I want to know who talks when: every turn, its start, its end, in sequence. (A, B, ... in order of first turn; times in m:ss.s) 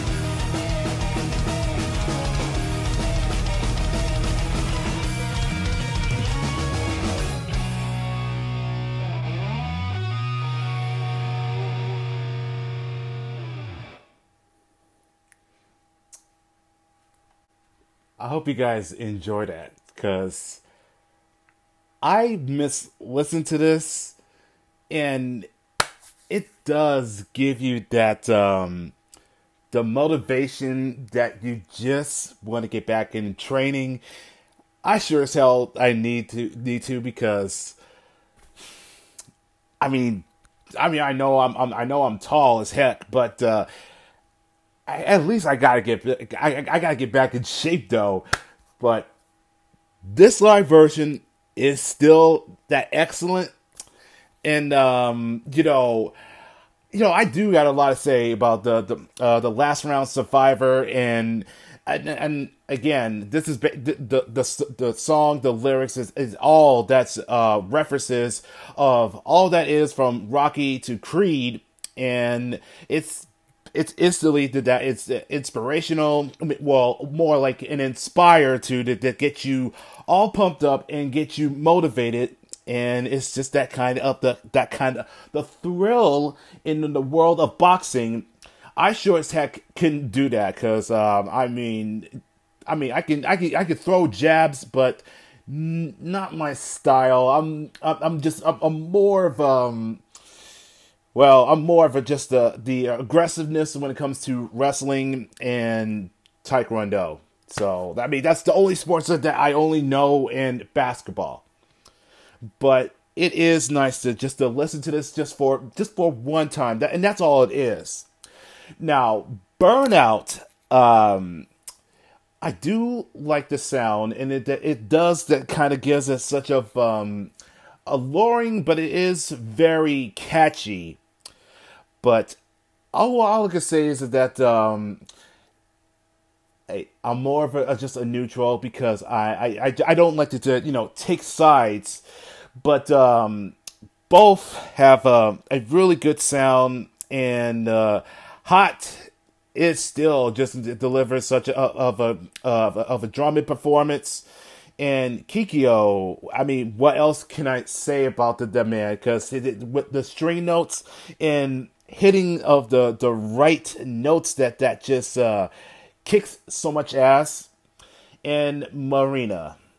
0:18.2-0:20.6 A
0:22.0-0:24.2 A
0:24.9-0:25.5 A
0:26.3-0:28.9 A
0:29.7-0:34.0 A
0:34.8-0:37.8 A
0:39.8-0:40.3 A
0:40.8-0:43.7 A
0:44.9-0:48.2 A
0:48.8-0:49.1 A
0:50.0-0:53.5 A
0:54.4-0:56.1 A
0:56.9-1:32.1 A
1:32.7-1:40.0 A
1:41.1-1:51.4 A
1:52.6-1:58.1 A
1:58.8-2:01.5 A
2:02.4-2:07.3 A
2:07.8-2:11.0 A
2:12.0-2:12.4 A
2:12.9-2:15.0 A
2:16.7-2:22.0 A
2:22.6-2:23.6 A
2:24.1-2:34.2 A
2:34.8-2:45.5 A
2:46.0-2:47.5 A
2:48.2-2:49.6 A